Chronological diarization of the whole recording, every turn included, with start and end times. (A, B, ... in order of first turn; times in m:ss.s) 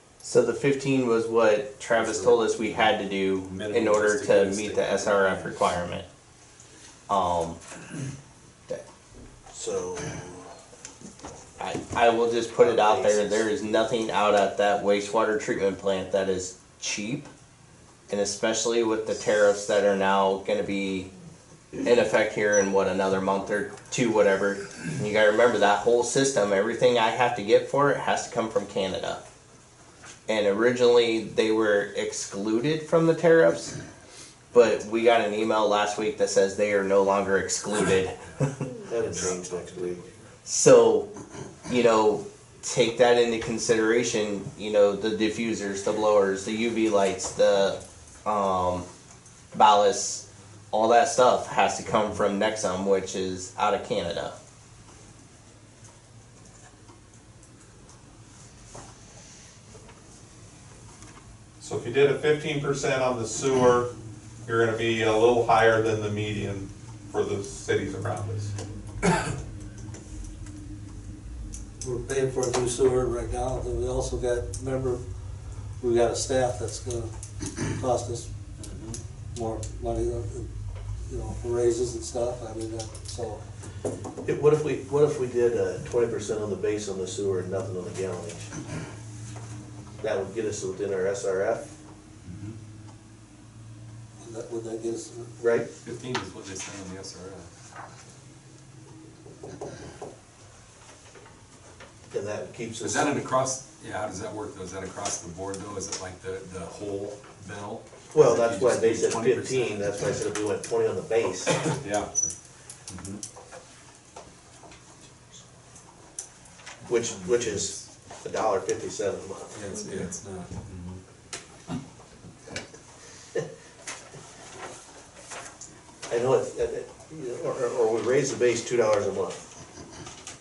0:00.2-0:06.0 A
0:01.9-0:06.0 B
0:07.1-0:07.6 A
0:09.5-0:10.4 C
0:11.6-0:17.3 A
0:12.5-0:13.5 C
0:18.1-0:21.1 A
0:21.8-0:29.2 A
0:30.3-0:33.7 A
0:34.5-0:38.5 A
0:38.2-0:40.2 B
0:38.9-0:40.0 C
0:40.4-0:41.1 A
0:41.7-0:48.9 A
0:49.5-0:54.4 A
1:01.6-1:03.9 D
1:04.4-1:08.5 D
1:11.8-1:15.0 E
1:15.8-1:18.3 E
1:18.6-1:19.0 B
1:19.3-1:20.5 E
1:21.0-1:23.4 E
1:24.2-1:28.5 C
1:30.0-1:31.7 C
1:32.2-1:32.6 B
1:34.2-1:35.3 E
1:35.4-1:35.7 C
1:35.8-1:37.5 B
1:42.1-1:43.2 C
1:42.8-1:50.0 B
1:48.1-1:51.6 C
1:51.8-1:52.3 B
1:52.9-1:53.2 B
1:56.8-1:59.6 C
1:57.0-1:57.8 B
1:59.5-2:01.0 B
2:06.1-2:09.4 C